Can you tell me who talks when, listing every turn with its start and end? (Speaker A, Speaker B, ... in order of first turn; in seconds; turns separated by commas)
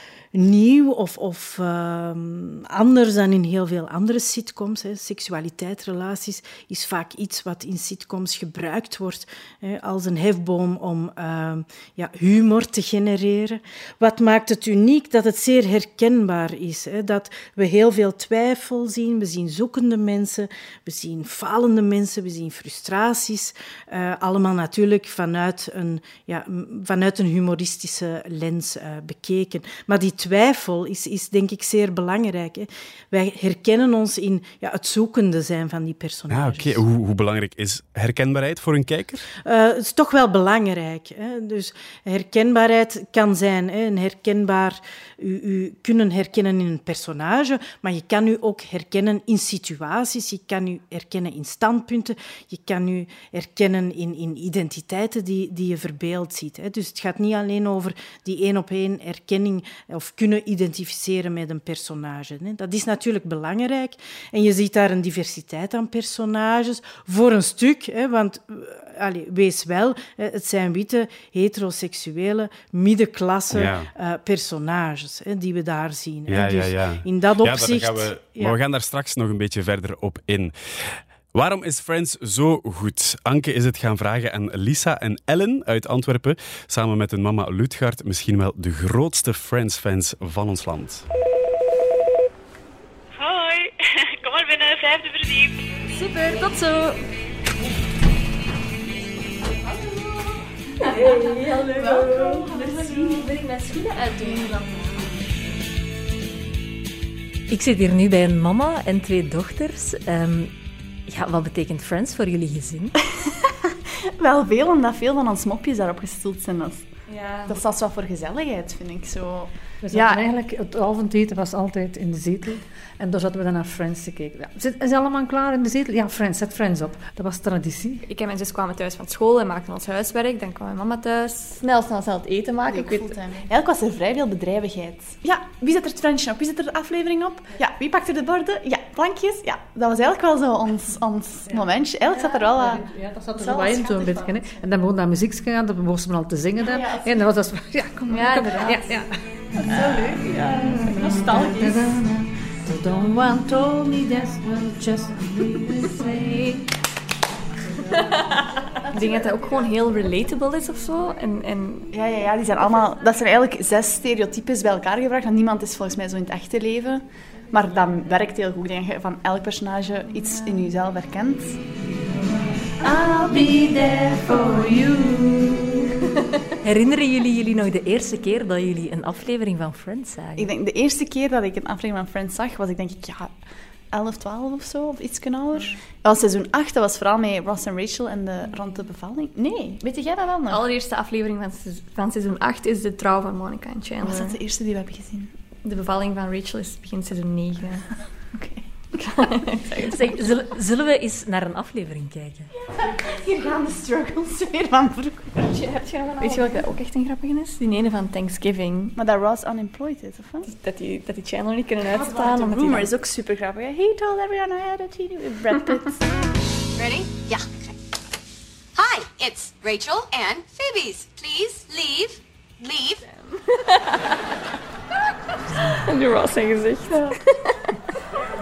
Speaker A: 0.3-36.8, Speaker B: 36.3-39.3, Speaker A: 39.4-78.6, Speaker B: 73.5-73.9, Speaker B: 76.3-91.0, Speaker C: 93.2-95.5, Speaker D: 101.0-104.6, Speaker E: 101.8-103.2, Speaker F: 107.5-110.5, Speaker F: 111.1-112.9, Speaker E: 114.2-120.2, Speaker D: 117.1-117.6, Speaker G: 119.8-128.0, Speaker D: 128.0-133.4, Speaker E: 132.7-144.4, Speaker G: 141.5-149.1, Speaker E: 146.6-147.3, Speaker D: 148.1-148.9, Speaker E: 148.2-148.8, Speaker E: 149.6-151.9, Speaker G: 150.7-156.5, Speaker D: 158.9-161.9, Speaker E: 161.9-171.6, Speaker G: 172.8-175.6, Speaker F: 176.6-180.5, Speaker E: 180.3-190.7, Speaker D: 190.5-194.4, Speaker E: 194.0-195.3, Speaker D: 195.6-197.9, Speaker E: 198.3-199.0, Speaker D: 199.0-200.1, Speaker F: 199.8-202.5, Speaker E: 202.8-206.7, Speaker D: 205.5-208.9, Speaker E: 208.9-210.5, Speaker D: 210.4-212.9, Speaker E: 211.8-216.0, Speaker H: 216.8-217.7, Speaker H: 218.7-223.0, Speaker D: 225.8-227.6